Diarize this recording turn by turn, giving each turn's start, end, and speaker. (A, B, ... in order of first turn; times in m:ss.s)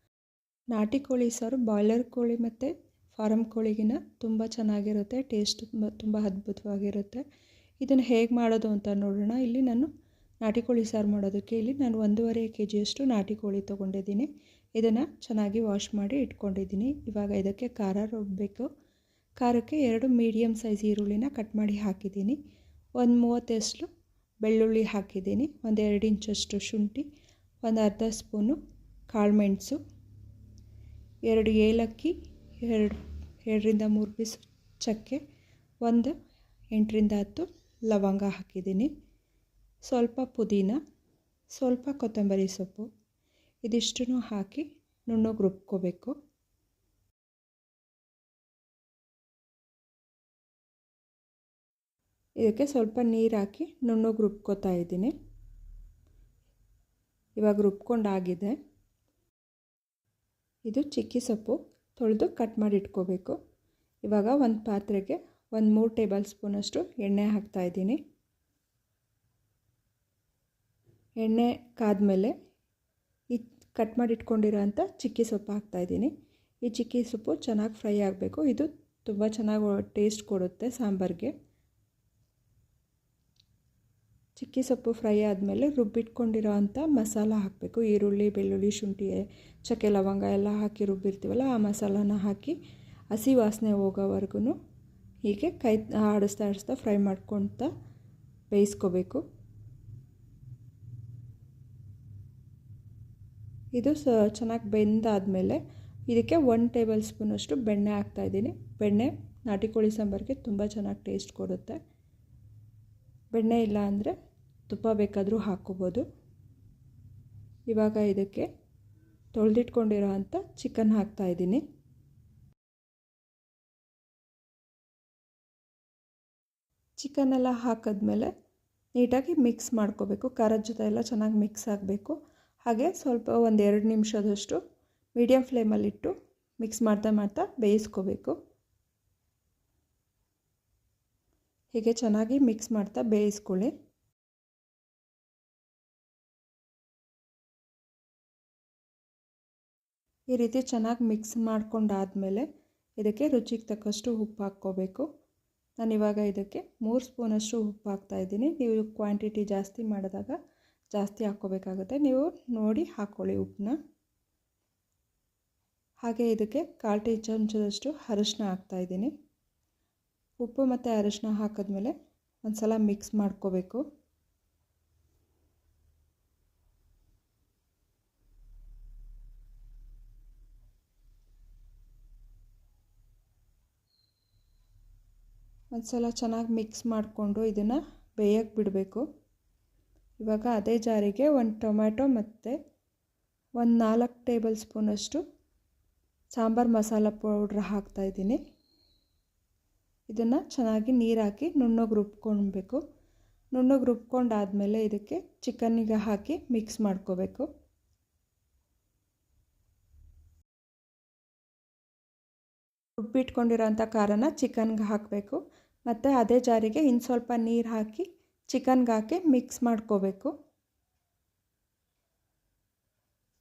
0:00.7-0:07.2 A
0:07.8-0:09.9 A
0:10.4-0:18.7 A
0:19.4-0:22.4 A
0:23.0-0:23.9 A
0:24.4-0:27.1 A
0:27.6-0:28.6 A
0:29.1-0:29.8 A
0:31.3-0:35.2 A
0:35.8-0:36.1 A
0:36.7-0:38.9 A
0:39.8-0:40.8 A
0:41.5-0:42.9 A
0:43.6-0:46.1 A
0:52.4-0:55.1 A
0:57.4-0:58.6 A
1:00.6-1:03.4 A
1:04.0-1:08.0 A
1:11.2-1:12.3 A
1:13.3-1:16.1 A
1:16.6-1:21.3 A
1:24.4-1:32.6 A
1:33.1-1:34.5 A
1:35.2-1:37.7 A
1:38.5-1:39.2 A
1:43.7-1:51.8 A
1:53.3-1:54.1 A
1:54.7-1:56.0 A
1:57.7-1:58.5 A
1:59.3-2:01.6 A
2:07.0-2:08.3 A
2:08.9-2:12.1 A
2:12.6-2:14.6 A
2:15.1-2:18.4 A
2:21.7-2:23.7 A
2:30.3-2:32.5 A
2:33.0-2:35.1 A
2:35.8-2:40.4 A
2:40.9-2:43.8 A
2:46.0-2:49.1 A
2:50.4-2:53.8 A
3:05.7-3:09.0 A
3:10.2-3:12.6 A
3:13.6-3:15.2 A
3:16.3-3:18.4 A
3:20.1-3:22.8 A
3:23.5-3:27.5 A
3:33.0-3:40.3 A